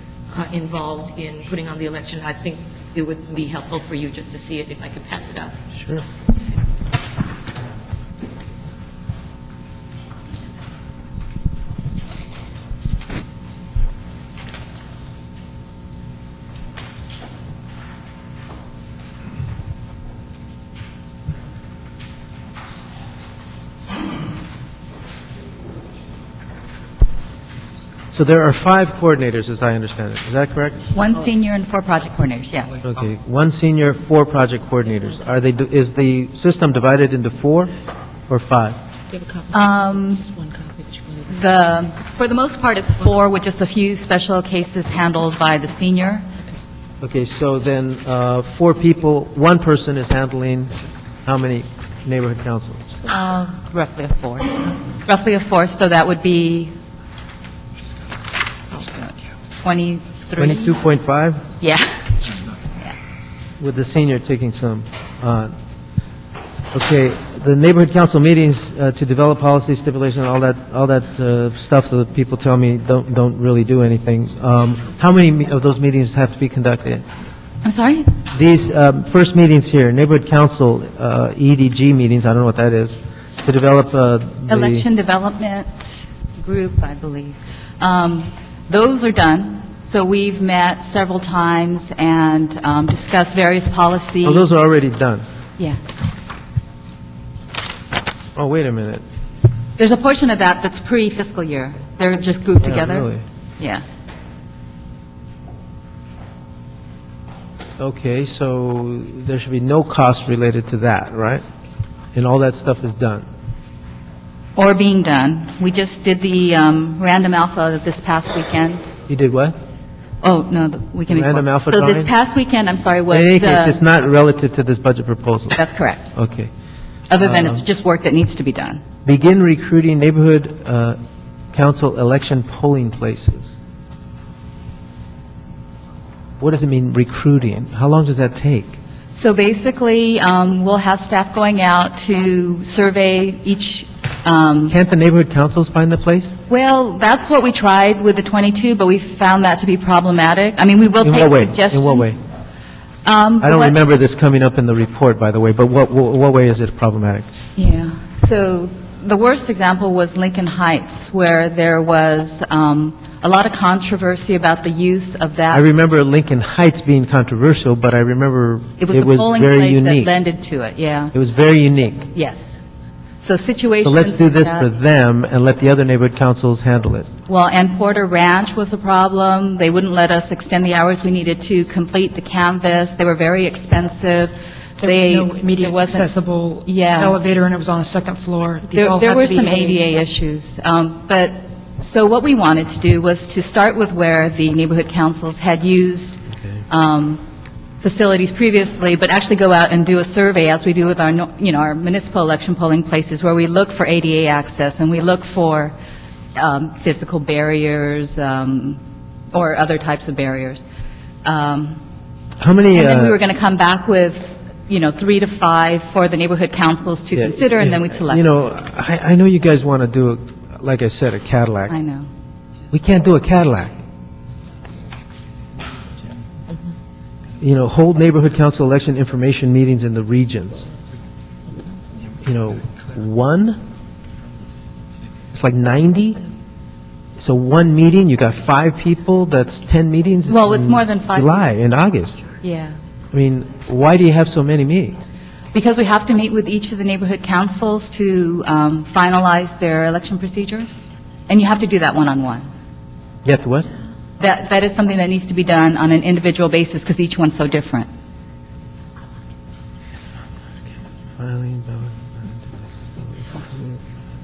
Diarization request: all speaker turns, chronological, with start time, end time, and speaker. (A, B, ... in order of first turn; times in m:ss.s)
0:00.3-0:05.6 A
0:05.7-0:06.0 B
0:28.1-0:30.9 B
0:30.9-0:32.7 C
0:32.8-0:37.7 B
0:38.3-0:38.8 B
0:39.1-0:39.6 A
0:39.5-0:40.3 C
0:40.2-0:41.3 A
0:41.3-0:46.2 C
0:47.0-0:52.9 B
0:53.1-0:56.7 C
0:58.8-1:00.8 C
1:00.4-1:01.4 B
1:01.6-1:03.0 C
1:03.6-1:05.5 B
1:06.7-1:17.0 B
1:17.6-1:18.2 C
1:18.3-1:24.9 B
1:24.5-1:34.5 C
1:34.2-1:35.2 B
1:35.6-1:35.9 C
1:38.4-1:39.0 B
1:39.8-1:43.8 C
1:42.6-1:43.2 B
1:47.8-1:51.4 B
1:52.2-1:53.3 B
1:54.6-1:58.9 C
1:59.1-1:59.6 B
2:00.2-2:03.8 C
2:01.1-2:02.1 B
2:03.1-2:05.6 B
2:05.6-2:06.1 C
2:06.1-2:06.5 B
2:07.1-2:08.8 C
2:07.2-2:07.6 B
2:09.0-2:11.0 B
2:11.5-2:13.6 B
2:16.4-2:18.8 B
2:19.1-2:24.8 C
2:24.7-2:26.4 B
2:26.5-2:32.1 C
2:31.0-2:32.2 B
2:33.0-2:33.8 C
2:33.4-2:37.3 B
2:37.6-2:45.6 C
2:45.5-2:50.1 B
2:48.8-2:51.2 C
2:51.1-2:52.1 B
2:52.1-2:52.5 C
2:53.2-2:54.7 C
2:53.8-2:57.1 B
2:57.3-3:06.1 C
3:04.8-3:09.8 D
3:06.6-3:07.2 C
3:08.7-3:17.2 C
3:17.8-3:25.8 C
3:26.4-3:28.8 C
3:29.3-3:30.6 C
3:31.2-3:31.8 C
3:32.4-3:33.2 B
3:32.7-3:38.2 C
3:37.2-3:41.8 B
3:41.7-3:42.1 C
3:42.7-3:43.8 B
3:47.4-3:50.7 B
3:52.2-3:53.6 B
3:55.3-3:56.2 B
3:57.2-4:02.2 B
4:00.3-4:01.3 C
4:02.4-4:02.8 C
4:03.1-4:05.0 B
4:05.5-4:12.5 C
4:13.2-4:13.7 B
4:14.2-4:17.9 C
4:21.2-4:23.8 B